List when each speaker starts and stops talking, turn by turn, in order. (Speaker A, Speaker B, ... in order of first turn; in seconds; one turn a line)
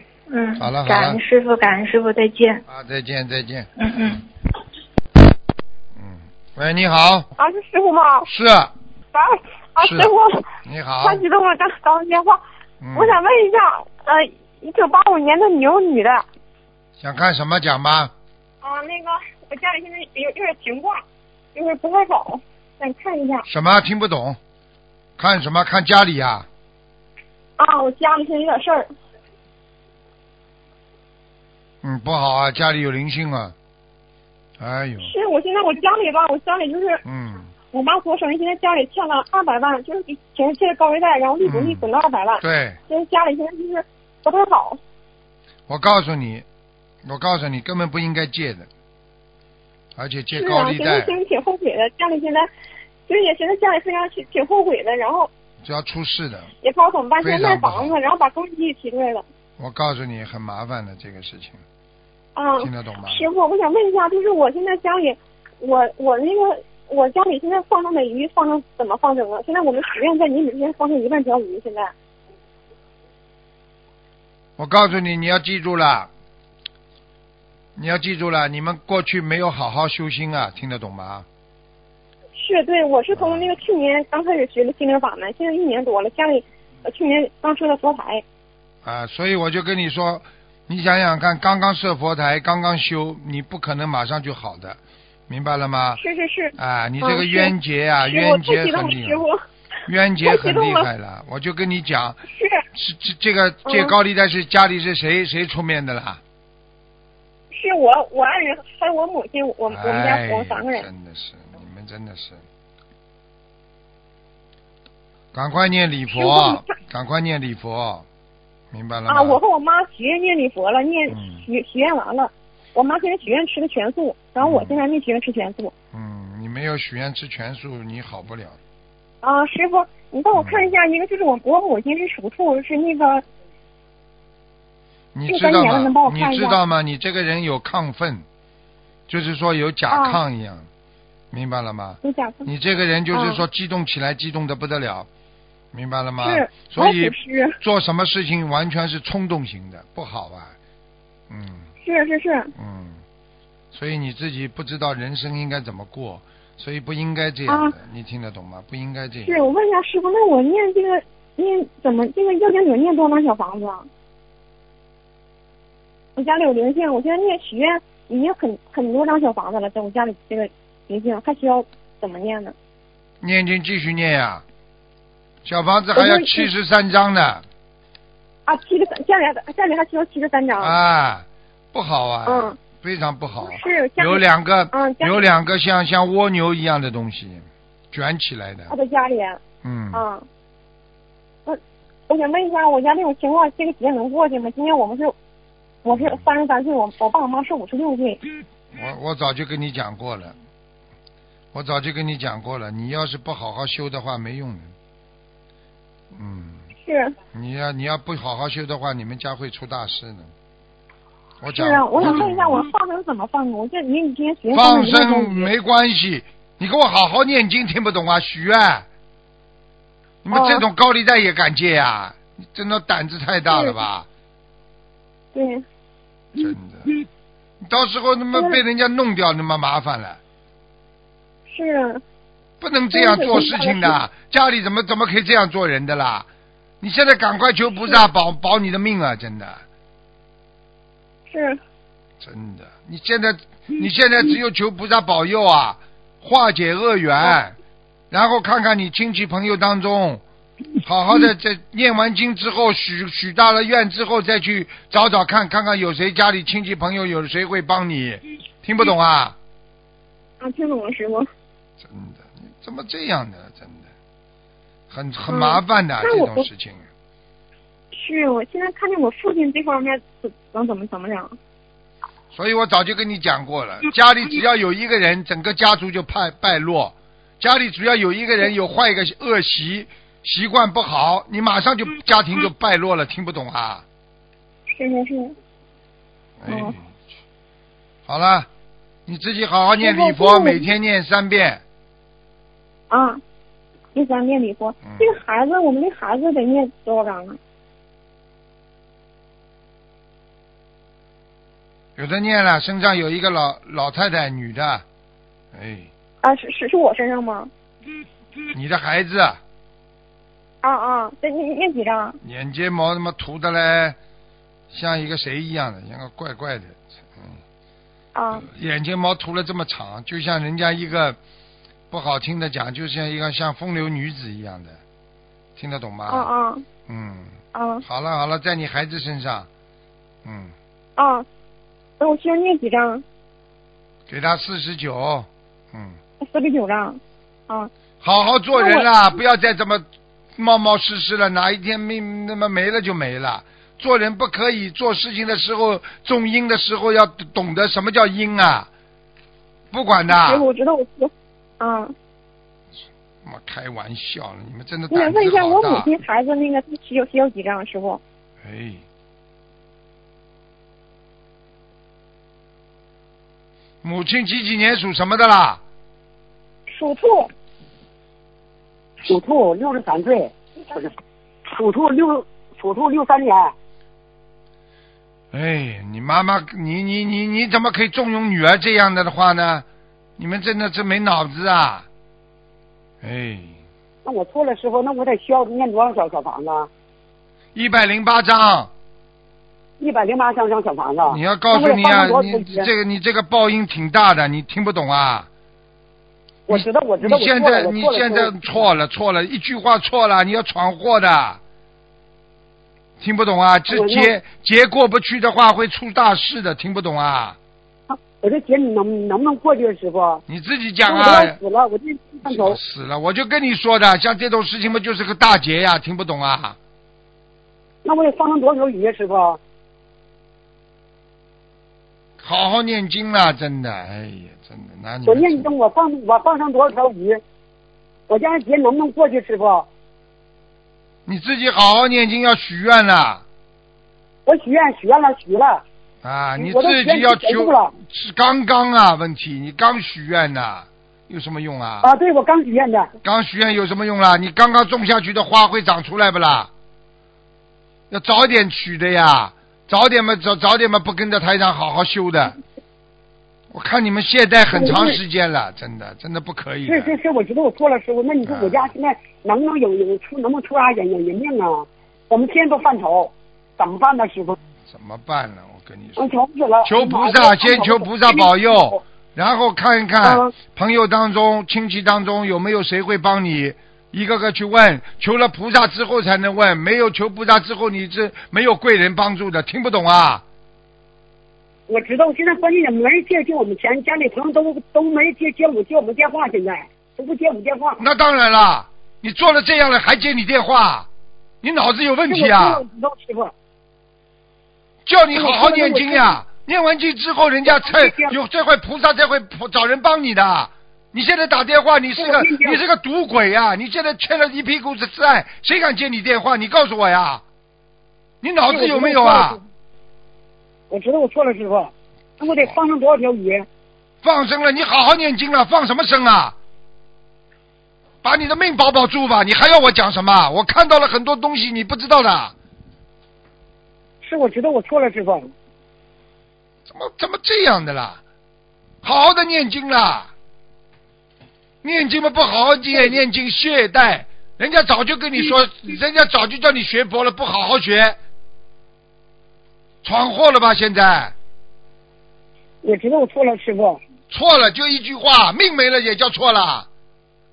Speaker A: 0.3-2.6
Speaker B: 0.6-1.2
Speaker B: 2.7-3.7
Speaker A: 3.8-4.2
Speaker B: 5.9-7.3
Speaker C: 7.4-8.3
Speaker B: 8.2-8.7
Speaker C: 9.1-10.4
Speaker B: 9.8-11.2
Speaker C: 11.0-12.4
Speaker B: 12.8-13.2
Speaker C: 12.9-16.2
Speaker B: 17.0-18.1
Speaker C: 18.6-21.0
Speaker C: 21.5-23.4
Speaker B: 23.5-24.4
Speaker B: 25.2-26.4
Speaker C: 27.6-28.9
Speaker B: 31.8-33.5
Speaker B: 34.6-35.1
Speaker C: 35.0-37.0
Speaker B: 37.0-37.5
Speaker C: 37.7-44.8
Speaker B: 41.4-41.8
Speaker B: 42.4-42.8
Speaker B: 45.7-46.4
Speaker B: 47.0-48.7
Speaker B: 50.0-51.1
Speaker C: 50.3-52.5
Speaker C: 53.1-55.3
Speaker B: 55.6-56.5
Speaker C: 56.6-59.2
Speaker B: 57.2-57.9
Speaker B: 59.6-61.6
Speaker C: 62.3-71.9
Speaker B: 62.6-63.2
Speaker B: 74.6-76.1
Speaker B: 77.8-81.2
Speaker C: 82.3-88.2
Speaker B: 83.1-83.5
Speaker B: 88.8-96.0
Speaker C: 96.0-99.4
Speaker B: 96.5-99.2
Speaker B: 99.9-102.2
Speaker C: 100.2-100.9
Speaker C: 102.3-102.6
Speaker B: 102.7-106.2
Speaker C: 103.7-103.9
Speaker C: 107.5-110.9
Speaker B: 109.7-112.4
Speaker B: 115.3-118.0
Speaker C: 116.1-116.7
Speaker B: 118.7-119.4
Speaker C: 119.1-125.7
Speaker B: 121.1-121.4
Speaker B: 124.4-124.8
Speaker B: 125.9-128.6
Speaker C: 129.2-133.2
Speaker B: 130.3-130.7
Speaker B: 135.1-138.2
Speaker C: 135.3-136.6
Speaker B: 139.1-140.7
Speaker C: 139.9-140.2
Speaker B: 141.3-145.1
Speaker C: 142.0-142.5
Speaker C: 143.1-143.4
Speaker B: 145.7-150.5
Speaker C: 146.2-147.6
Speaker B: 151.3-151.7
Speaker C: 151.8-152.5
Speaker B: 152.6-153.0
Speaker B: 153.7-159.5
Speaker C: 157.5-157.8
Speaker C: 159.2-163.9
Speaker C: 166.2-172.5
Speaker B: 173.2-174.4
Speaker B: 175.4-177.4
Speaker C: 175.9-176.5
Speaker C: 178.5-180.8
Speaker B: 180.6-188.7
Speaker C: 182.2-182.6
Speaker C: 183.4-185.2
Speaker C: 188.7-189.4
Speaker B: 189.6-190.0
Speaker C: 189.9-190.2
Speaker C: 191.4-195.1
Speaker C: 195.8-198.2
Speaker B: 195.9-196.2
Speaker B: 198.7-200.3
Speaker B: 201.5-204.7
Speaker B: 206.1-206.6
Speaker C: 206.8-207.1
Speaker B: 207.3-210.3
Speaker B: 211.4-212.6
Speaker C: 211.5-215.5
Speaker B: 214.5-218.8
Speaker B: 220.2-224.1
Speaker C: 220.3-220.6
Speaker C: 223.5-223.8
Speaker C: 225.3-225.6
Speaker B: 226.3-226.9
Speaker B: 227.6-230.2
Speaker C: 231.5-232.0
Speaker B: 232.6-236.3
Speaker C: 232.9-234.0
Speaker B: 236.8-239.6
Speaker C: 241.3-241.6
Speaker B: 242.2-247.5
Speaker B: 248.1-250.2
Speaker B: 250.8-259.4
Speaker C: 260.4-261.3
Speaker B: 261.8-263.9
Speaker B: 264.9-266.8
Speaker C: 265.3-266.5
Speaker C: 267.9-271.4
Speaker B: 272.3-283.8
Speaker C: 284.7-285.3
Speaker B: 286.4-286.8
Speaker C: 286.5-286.7
Speaker B: 288.1-288.5
Speaker B: 289.1-291.6
Speaker C: 289.8-290.7
Speaker C: 292.9-293.2
Speaker C: 293.9-297.4
Speaker B: 294.8-295.2
Speaker B: 301.9-304.8
Speaker B: 305.5-305.9
Speaker C: 306.2-307.5
Speaker B: 308.5-309.4
Speaker C: 310.6-312.2
Speaker B: 312.2-314.0
Speaker B: 314.7-317.4
Speaker C: 318.1-318.5
Speaker B: 318.4-321.2
Speaker B: 321.9-324.8
Speaker B: 325.6-326.3
Speaker C: 326.1-326.6
Speaker B: 326.9-329.5
Speaker C: 327.5-327.8
Speaker B: 330.2-330.5
Speaker C: 331.0-331.2
Speaker C: 332.0-333.0
Speaker B: 334.1-336.0
Speaker C: 336.2-337.7
Speaker B: 338.0-339.8
Speaker C: 338.5-338.9
Speaker B: 340.4-348.7
Speaker B: 349.7-350.4
Speaker C: 350.1-351.9
Speaker B: 353.2-355.9
Speaker C: 354.9-358.0
Speaker B: 358.4-358.8
Speaker B: 363.8-365.6
Speaker C: 366.7-367.3
Speaker D: 369.0-370.9
Speaker D: 371.5-373.5
Speaker B: 375.3-379.6
Speaker B: 380.2-381.9
Speaker B: 383.0-383.6
Speaker D: 384.0-386.7
Speaker B: 387.5-388.7
Speaker D: 389.8-392.7
Speaker B: 391.1-395.3
Speaker D: 396.5-398.4
Speaker B: 396.5-401.4
Speaker B: 403.0-407.4
Speaker D: 403.7-404.1
Speaker D: 407.9-410.2
Speaker B: 410.3-411.4
Speaker D: 410.9-412.6
Speaker B: 412.2-416.6
Speaker D: 417.8-419.4
Speaker B: 422.2-425.5
Speaker D: 425.0-427.2
Speaker D: 428.1-429.7
Speaker B: 431.1-433.2
Speaker D: 434.2-435.6
Speaker B: 436.0-441.9
Speaker D: 436.4-437.7
Speaker D: 441.8-442.9
Speaker B: 443.0-446.5
Speaker B: 447.9-452.4
Speaker B: 453.5-456.9
Speaker D: 454.5-455.0
Speaker D: 456.6-464.4
Speaker B: 458.2-458.7
Speaker B: 464.6-466.1
Speaker D: 466.0-468.8
Speaker B: 466.6-480.2
Speaker D: 481.7-487.8
Speaker B: 487.8-490.9
Speaker B: 491.4-492.6
Speaker D: 492.1-493.3
Speaker B: 494.9-507.2
Speaker D: 495.1-496.2
Speaker D: 497.5-498.1
Speaker D: 502.0-502.6
Speaker B: 508.2-509.4
Speaker D: 508.5-509.4
Speaker D: 510.7-513.5
Speaker B: 514.0-516.4
Speaker B: 518.0-522.3
Speaker D: 524.0-525.3
Speaker B: 526.7-528.0
Speaker B: 528.8-530.1
Speaker B: 531.6-538.0
Speaker B: 539.8-541.1
Speaker D: 542.6-543.8
Speaker B: 544.1-546.7